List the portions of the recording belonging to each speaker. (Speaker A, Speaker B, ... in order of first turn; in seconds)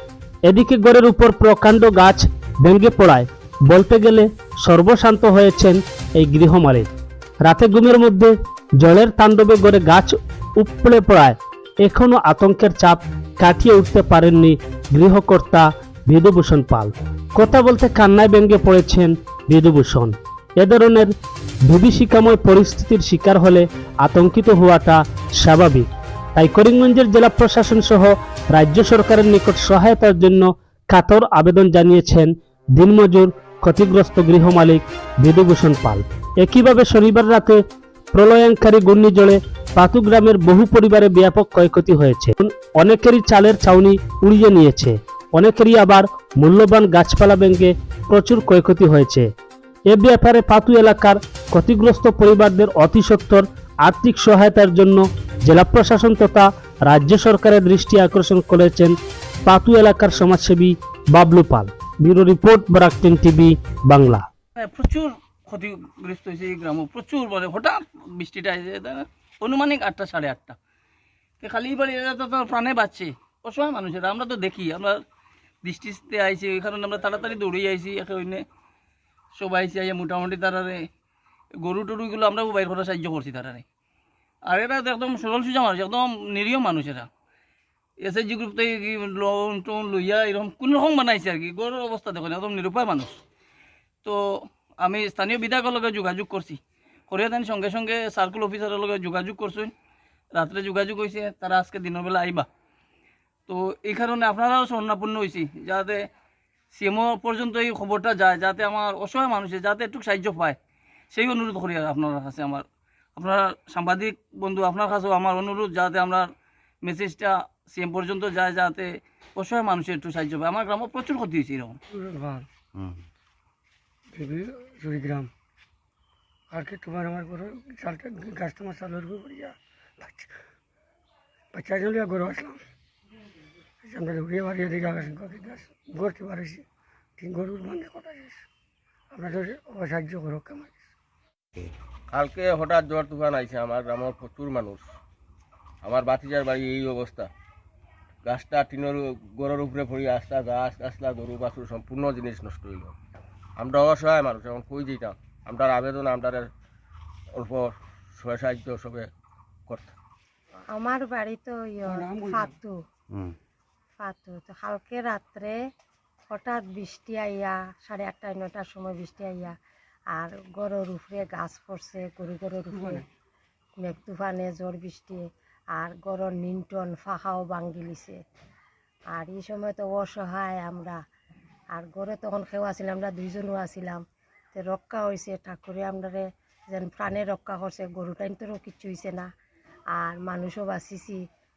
Speaker A: 0.4-6.9, 7.4-21.1, 21.6-37.6, 38.1-49.3, 49.9-58.9, 59.5-64.3
Speaker B: 64.6-70.6, 71.4-75.0, 75.6-78.4, 79.3-80.8, 81.6-83.6, 84.5-87.1, 88.0-93.2, 94.0-99.7, 100.3-102.5, 103.5-106.0, 106.7-110.6, 111.1-112.6, 113.2-116.3, 116.8-121.8
Speaker C: 121.9-122.5, 124.1-125.3, 126.5-130.3, 131.5-132.6, 133.8-136.6, 137.2-138.4, 139.1-140.9, 161.8-162.5, 172.7-173.0
Speaker D: 142.1-144.9, 145.8-147.3, 148.2-152.9, 153.6-156.5, 157.3-159.1, 159.7-159.9
Speaker E: 160.7-162.8, 164.0-165.6, 166.3-169.5, 170.1-173.0, 173.8-175.2, 175.7-178.2, 179.1-181.0, 181.7-189.3, 189.9-191.2